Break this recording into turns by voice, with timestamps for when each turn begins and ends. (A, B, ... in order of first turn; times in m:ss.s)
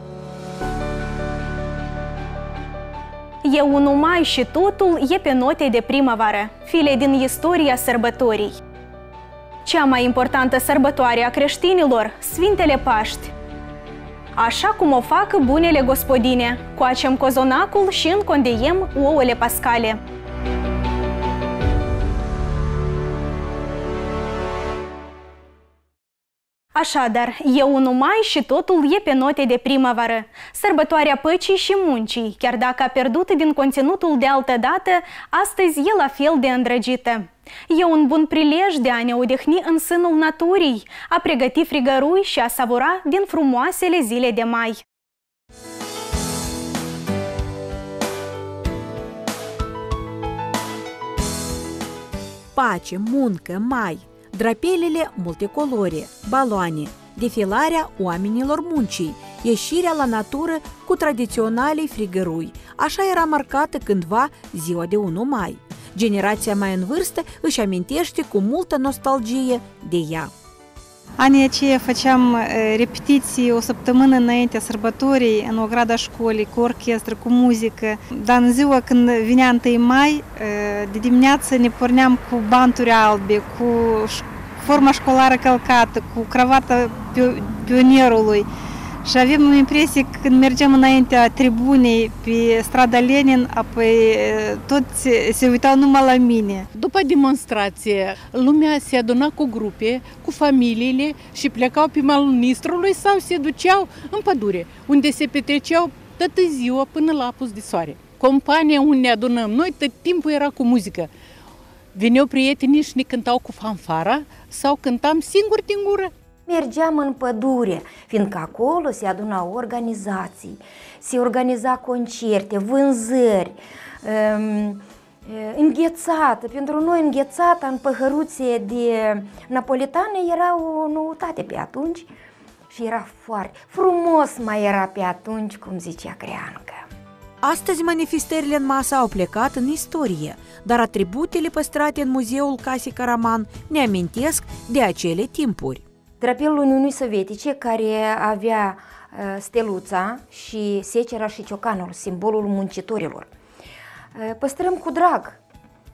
0:03.4-0:08.6 A
0:09.6-0:13.3 A
0:14.4-0:20.0 A
0:26.7-0:44.8 A
0:52.5-1:10.3 B
1:11.2-1:28.5 C
1:29.0-1:36.7 C
1:36.7-1:51.1 D
1:51.9-1:56.1 D
1:56.5-2:12.1 E
2:12.7-2:16.8 E
2:17.4-2:25.8 B
2:26.2-2:33.3 E
2:34.1-2:35.4 E